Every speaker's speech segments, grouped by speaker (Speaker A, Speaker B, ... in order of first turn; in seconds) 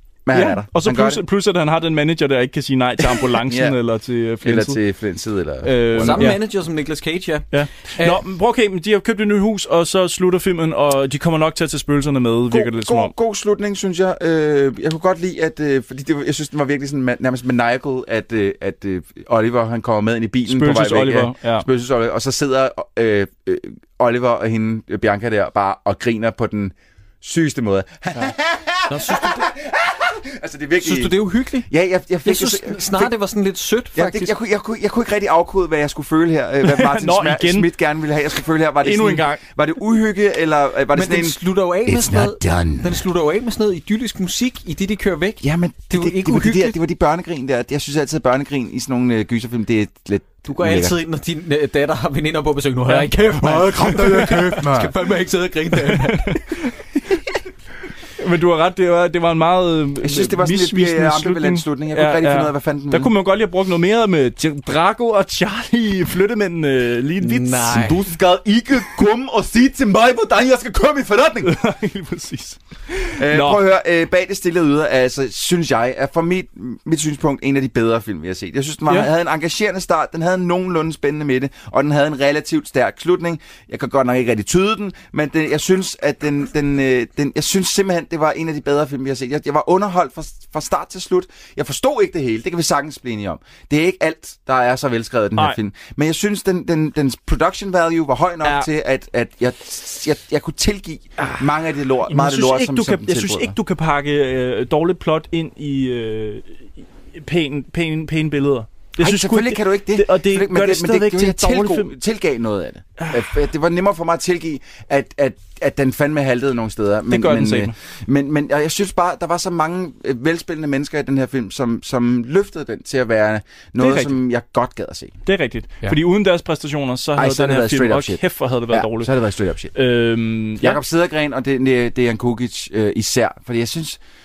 Speaker A: 0.2-1.2, 3.1-3.8, 4.4-6.3, 12.5-33.1, 33.9-43.0, 45.4-51.0, 53.4-54.9, 60.0-63.1, 67.7-71.5, 73.2-103.6, 109.0-125.1, 127.2-129.7, 130.6-134.0
Speaker B: 0.3-4.8, 5.6-6.4, 7.5-13.1, 20.5-21.6, 36.6-37.7, 38.8-39.4, 52.9-53.1, 53.8-54.6, 55.8-56.7, 58.2-68.0, 71.4-73.6, 101.2-101.5, 102.1-111.9, 113.0-113.4, 117.1-117.7, 123.8-124.2, 125.2-129.1, 129.7-130.8
Speaker C: 6.0-8.2, 28.9-29.5, 30.8-31.7, 32.2-34.3, 40.9-46.8, 50.4-56.4, 67.2-68.0